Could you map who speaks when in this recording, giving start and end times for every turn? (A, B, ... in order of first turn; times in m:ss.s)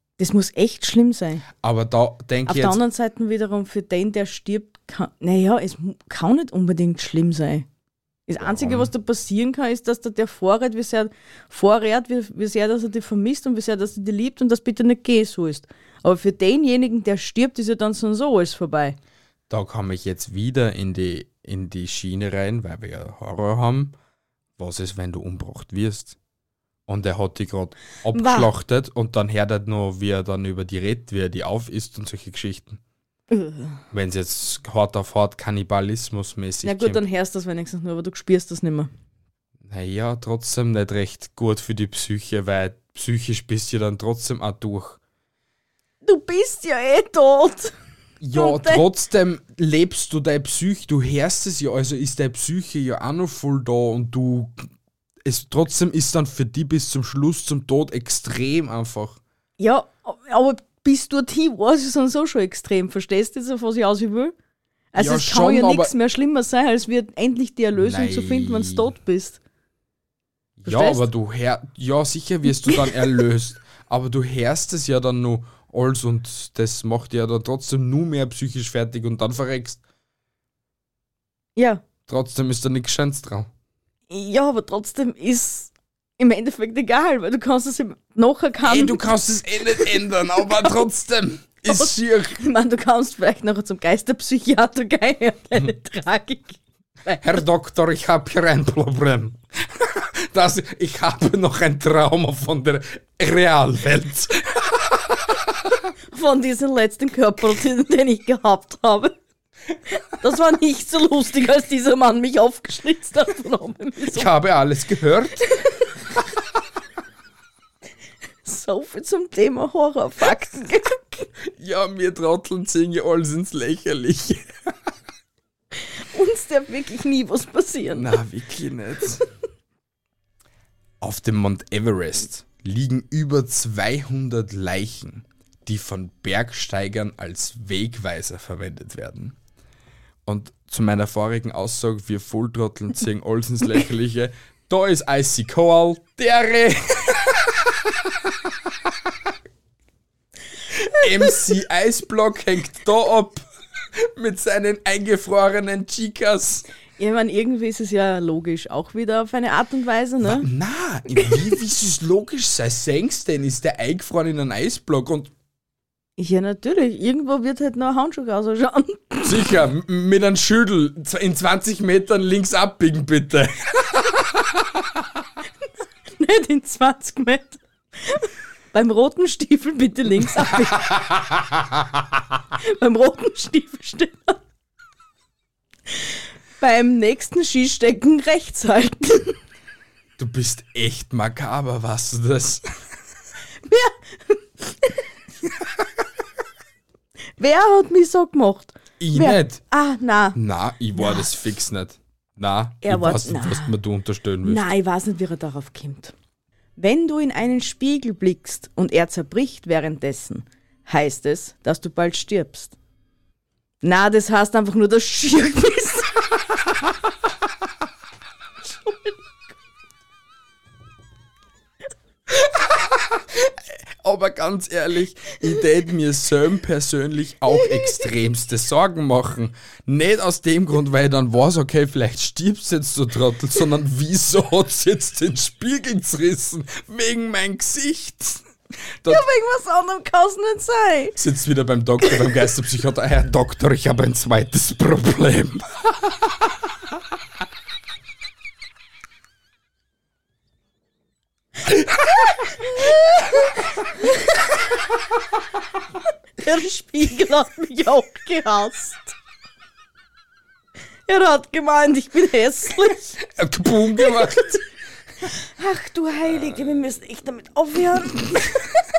0:00.2-0:01.4 A
0:01.6-0:02.8 B
0:02.5-0:07.7 A
0:08.3-0:19.0 A
0:08.4-0:08.9 B
0:19.5-0:24.0 B
0:24.6-0:26.2 B
0:26.9-0:32.8 B
0:28.1-0:28.5 A
0:33.3-0:33.8 A
0:33.9-0:37.0 B
0:36.6-0:38.9 A
0:39.6-0:45.0 B
0:46.0-0:47.7 A
0:48.2-0:54.6 B
0:48.3-0:48.8 A
0:55.2-0:59.2 B
0:59.6-1:04.4 A
1:04.9-1:09.4 A
1:05.0-1:05.9 B
1:07.8-1:08.9 B
1:10.6-1:19.8 B
1:10.6-1:11.1 A
1:21.6-1:21.8 A
1:22.1-1:23.5 B
1:24.1-1:29.1 A
1:28.6-1:32.4 B
1:31.7-1:37.4 A
1:37.2-1:45.2 B
1:46.1-1:49.2 A
1:50.0-1:54.3 A
1:54.1-1:55.4 B
1:55.5-1:55.8 A
1:58.4-2:01.3 A
2:01.5-2:04.7 B
2:05.8-2:08.1 A
2:07.9-2:09.2 B
2:11.0-2:19.4 B
2:20.3-2:29.1 B
2:30.7-2:36.7 B
2:37.0-2:40.5 A
2:40.2-2:45.3 B
2:46.2-2:49.4 A
2:49.2-2:54.8 B
2:56.2-3:00.9 A
3:00.8-3:02.0 B
3:02.6-3:04.4 A
3:06.6-3:09.4 A
3:10.2-3:12.7 B
3:13.6-3:15.0 A
3:17.4-3:20.4 A
3:19.0-3:19.6 B
3:20.4-3:24.6 B
3:21.0-3:21.3 A
3:22.8-3:23.8 A
3:24.4-3:26.1 A
3:26.8-3:32.7 A
3:33.8-3:36.3 A
3:38.8-3:39.2 A
3:42.5-3:58.4 B
3:59.1-4:01.2 A
4:01.2-4:06.5 B
4:11.6-4:12.2 B
4:12.6-4:13.6 A
4:16.4-4:19.2 A
4:21.1-4:23.2 A
4:23.2-4:24.6 B
4:24.0-4:24.6 A
4:25.3-4:28.7 A